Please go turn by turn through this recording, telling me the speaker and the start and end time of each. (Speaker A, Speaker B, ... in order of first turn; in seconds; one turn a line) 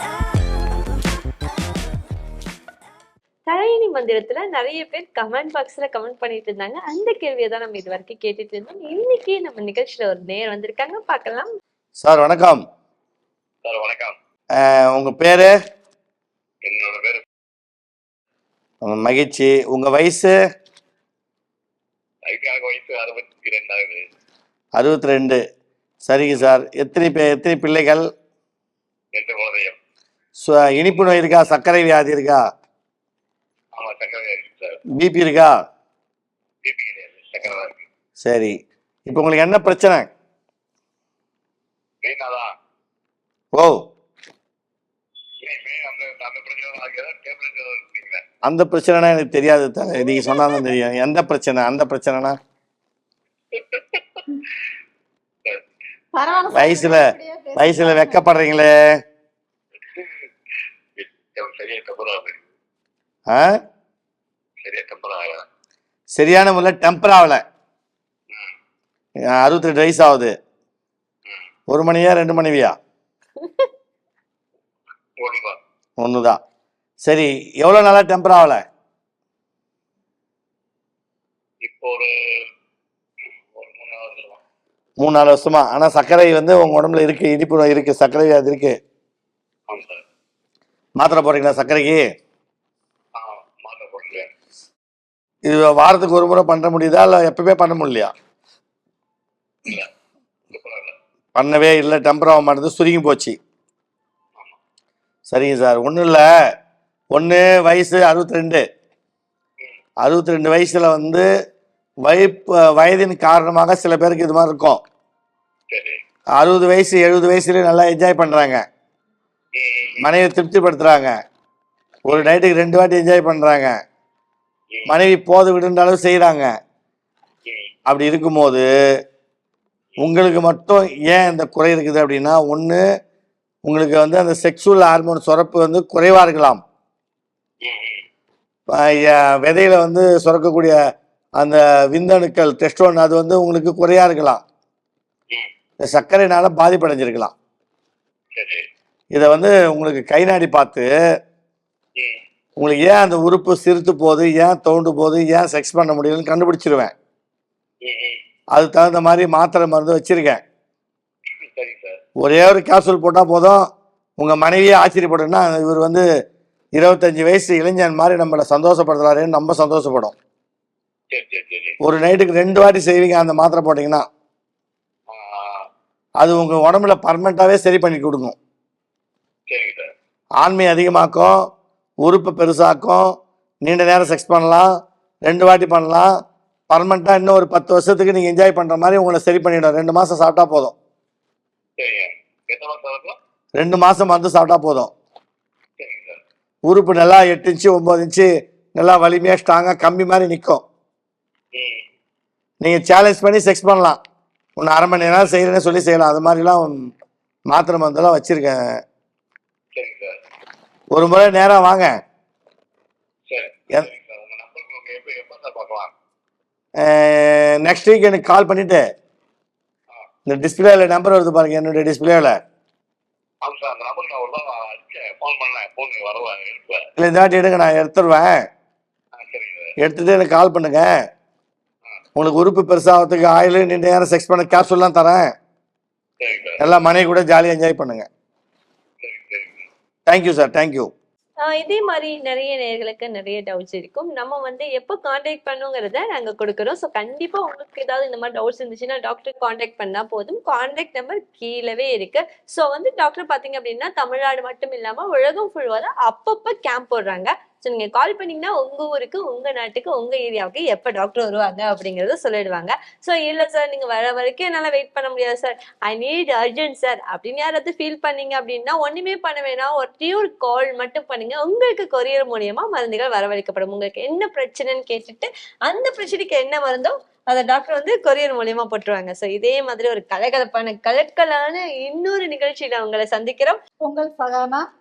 Speaker A: 3.5-11.5
Speaker B: 12.0-12.6
Speaker C: 13.6-14.2
Speaker B: 14.6-15.6
Speaker C: 16.6-17.2
Speaker B: 18.8-20.3
Speaker C: 22.3-24.0
Speaker B: 24.8-25.4
Speaker B: 26.1-28.0
Speaker C: 29.1-29.8
Speaker B: 30.4-32.4
Speaker C: 33.8-34.8
Speaker B: 35.0-35.6
Speaker C: 36.6-37.9
Speaker B: 38.2-38.5
Speaker B: 39.1-40.0
Speaker C: 42.0-42.5
Speaker C: 45.4-48.2
Speaker B: 48.4-52.4
Speaker C: 53.5-54.2
Speaker D: 56.1-58.2
Speaker B: 56.5-58.8
Speaker C: 60.0-60.3
Speaker C: 61.0-62.5
Speaker B: 63.3-63.6
Speaker C: 64.6-65.4
Speaker B: 66.1-67.4
Speaker B: 69.3-70.3
Speaker B: 71.7-72.7
Speaker C: 75.2-75.6
Speaker B: 76.0-76.4
Speaker B: 77.0-78.6
Speaker C: 81.6-82.5
Speaker C: 83.5-84.4
Speaker B: 85.0-88.7
Speaker C: 89.7-90.0
Speaker B: 91.0-92.0
Speaker C: 93.2-94.3
Speaker B: 95.5-98.1
Speaker C: 100.5-100.9
Speaker B: 101.3-103.4
Speaker B: 105.3-106.2
Speaker B: 107.1-108.6
Speaker B: 110.0-111.2
Speaker B: 112.0-114.8
Speaker C: 115.7-116.0
Speaker B: 116.4-118.6
Speaker C: 119.5-120.1
Speaker B: 120.0-121.1
Speaker B: 122.1-123.7
Speaker B: 124.9-126.5
Speaker B: 127.9-128.6
Speaker B: 130.0-132.8
Speaker B: 133.6-136.6
Speaker C: 137.6-138.0
Speaker B: 138.7-140.8
Speaker B: 141.4-144.4
Speaker B: 145.8-147.3
Speaker C: 148.3-148.6
Speaker B: 149.1-150.9
Speaker B: 152.6-156.9
Speaker C: 157.8-158.2
Speaker B: 158.5-160.4
Speaker C: 161.5-162.0
Speaker B: 162.2-163.6
Speaker B: 164.2-166.0
Speaker B: 166.8-170.2
Speaker C: 171.1-171.8
Speaker B: 171.8-174.0
Speaker C: 175.1-175.7
Speaker B: 176.2-178.3
Speaker C: 179.5-179.9
Speaker B: 180.4-181.3
Speaker B: 182.0-183.1
Speaker B: 183.6-184.7
Speaker B: 185.2-186.1
Speaker B: 186.7-190.8
Speaker C: 191.8-193.1
Speaker B: 193.6-194.9
Speaker C: 195.8-196.2
Speaker B: 196.7-200.6
Speaker C: 201.5-201.8
Speaker B: 202.6-204.0
Speaker B: 204.6-206.8
Speaker B: 207.5-208.8
Speaker C: 209.8-210.1
Speaker B: 210.9-211.9
Speaker C: 213.3-215.9
Speaker B: 216.8-218.8
Speaker B: 220.3-222.3
Speaker C: 223.4-226.8
Speaker B: 227.0-228.3
Speaker C: 229.1-229.7
Speaker B: 229.8-230.9
Speaker B: 232.2-235.2
Speaker C: 236.2-236.6
Speaker B: 236.6-238.1
Speaker C: 239.0-239.7
Speaker B: 240.1-240.9
Speaker A: 241.4-283.6
Speaker D: 283.9-284.6